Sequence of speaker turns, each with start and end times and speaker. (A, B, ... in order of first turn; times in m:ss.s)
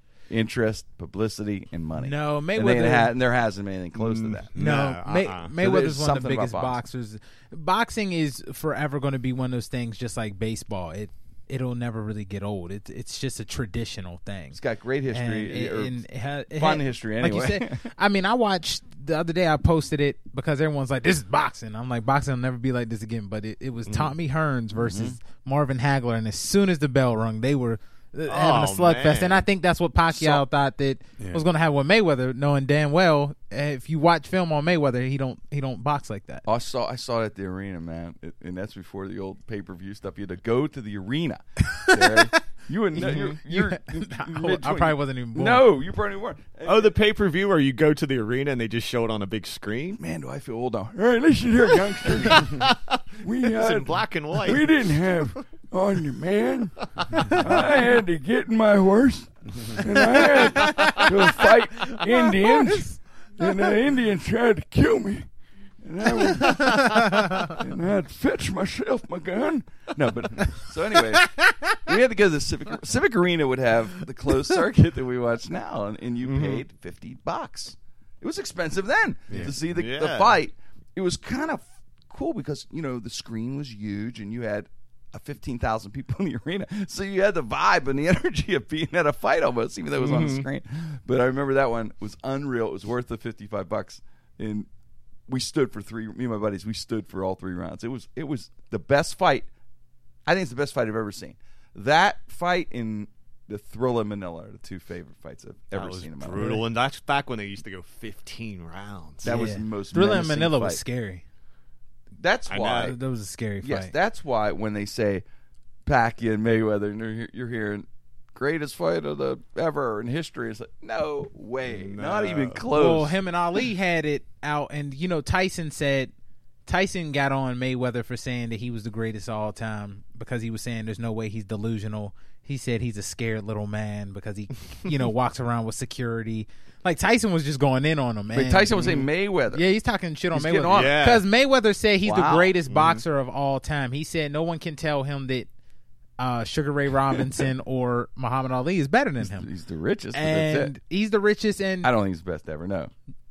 0:00.3-0:04.5 A
0:02.0-0:03.1 B
0:04.0-0:05.6 C
0:04.6-0:14.6 B
0:05.6-0:06.8 A
0:14.5-0:16.0 A
0:15.1-0:36.4 B
0:16.6-0:17.9 A
0:23.9-0:24.1 C
0:24.8-0:25.2 A
0:28.3-0:29.5 C
0:30.1-0:30.4 C
0:36.4-0:47.0 A
0:41.9-0:42.4 B
0:43.0-0:45.7 B
0:43.0-0:43.4 C
0:46.7-0:50.0 C
0:50.0-0:52.6 A
0:52.1-0:54.8 C
0:53.2-1:05.3 A
1:00.4-1:01.1 B
1:02.0-1:03.0 B
1:05.8-1:34.7 A
1:16.2-1:16.6 C
1:19.3-1:20.4 C
1:30.0-1:30.5 C
1:35.3-1:39.5 A
1:40.2-1:46.4 A
1:45.7-1:49.3 C
1:46.4-1:46.6 B
1:49.2-1:50.8 A
1:49.2-1:51.2 B
1:52.2-1:53.0 A
1:52.5-1:53.0 C
1:52.8-1:53.9 B
1:53.6-1:55.2 A
1:55.9-2:03.1 A
2:01.7-2:02.7 C
2:02.7-2:06.1 B
2:06.7-2:25.5 B
2:18.3-2:19.6 A
2:20.3-2:20.9 A
2:20.7-2:21.2 C
2:22.0-2:22.5 A
2:22.7-2:23.0 C
2:26.2-2:29.5 B
2:29.2-2:30.7 A
2:30.1-2:31.9 B
2:31.8-2:32.9 A